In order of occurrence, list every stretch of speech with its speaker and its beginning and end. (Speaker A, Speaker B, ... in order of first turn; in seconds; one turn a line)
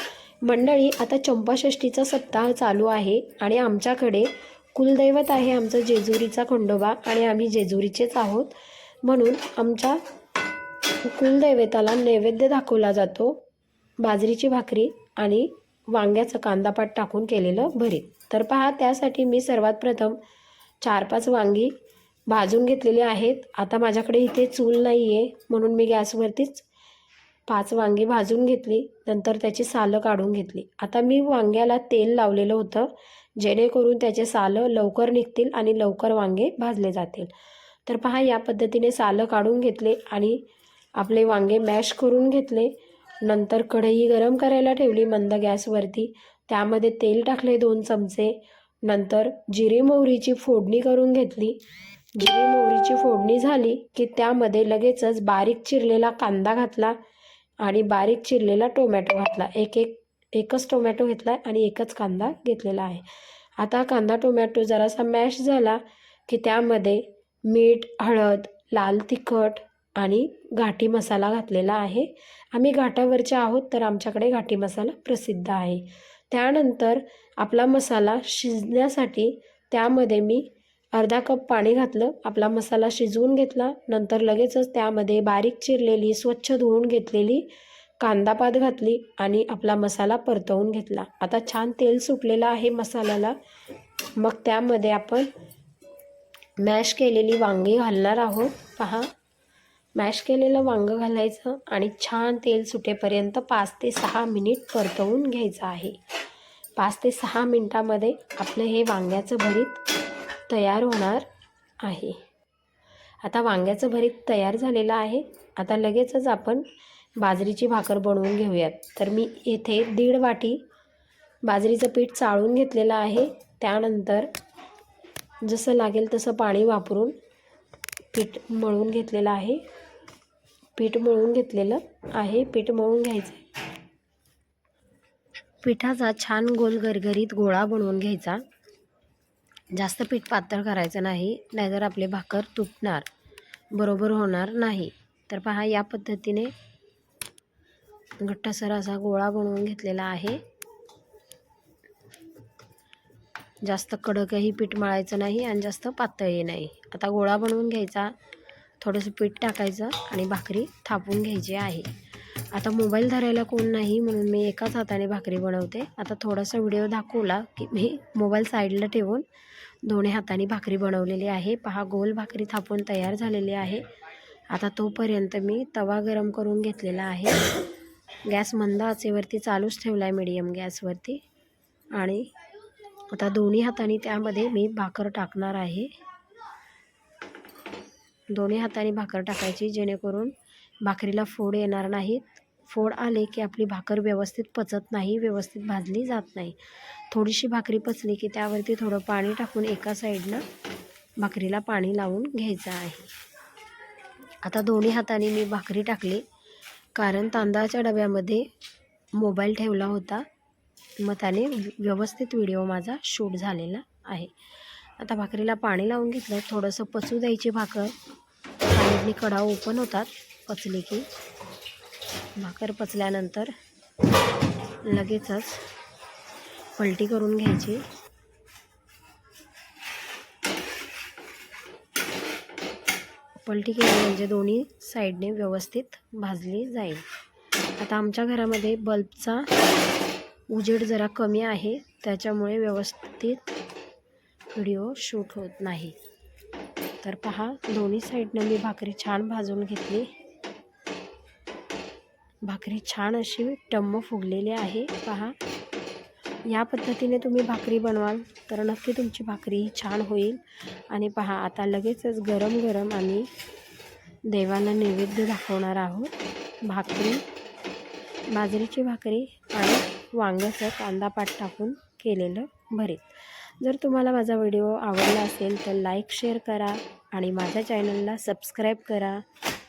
Speaker A: 0.4-10.0
Speaker A: 11.0-13.4
Speaker A: 14.0-20.2
Speaker A: 20.8-21.7
Speaker A: 22.3-26.6
Speaker A: 27.5-37.3
Speaker A: 37.9-40.4
Speaker A: 41.0-51.6
Speaker A: 52.1-57.0
Speaker A: 57.6-63.0
Speaker A: 63.6-93.3
Speaker A: 94.2-95.3
Speaker A: 96.6-99.1
Speaker A: 100.0-106.0
Speaker A: 106.8-109.8
Speaker A: 110.5-111.3
Speaker A: 111.8-112.2
Speaker A: 113.2-116.7
Speaker A: 117.2-120.6
Speaker A: 121.4-124.3
Speaker A: 125.4-127.1
Speaker A: 128.1-129.6
Speaker A: 130.8-133.4
Speaker A: 135.6-138.4
Speaker A: 139.7-143.1
Speaker A: 143.7-146.5
Speaker A: 148.2-150.4
Speaker A: 153.6-158.1
Speaker A: 158.8-161.9
Speaker A: 162.5-169.2
Speaker A: 169.8-173.8
Speaker A: 174.5-177.4
Speaker A: 178.2-181.2
Speaker A: 181.9-182.3
Speaker A: 183.1-185.9
Speaker A: 188.3-196.6
Speaker A: 197.1-200.4
Speaker A: 201.2-203.1
Speaker A: 204.4-206.2
Speaker A: 206.9-208.4
Speaker A: 209.2-210.2
Speaker A: 211.0-214.3
Speaker A: 215.0-217.9
Speaker A: 218.7-221.1
Speaker A: 222.4-223.5
Speaker A: 224.8-225.6
Speaker A: 226.8-227.8
Speaker A: 233.4-237.0
Speaker A: 237.8-239.5
Speaker A: 240.5-243.6
Speaker A: 244.5-246.0
Speaker A: 247.0-250.1
Speaker A: 252.4-255.3
Speaker A: 256.5-263.3
Speaker A: 264.3-266.1
Speaker A: 266.6-267.2
Speaker A: 268.3-279.2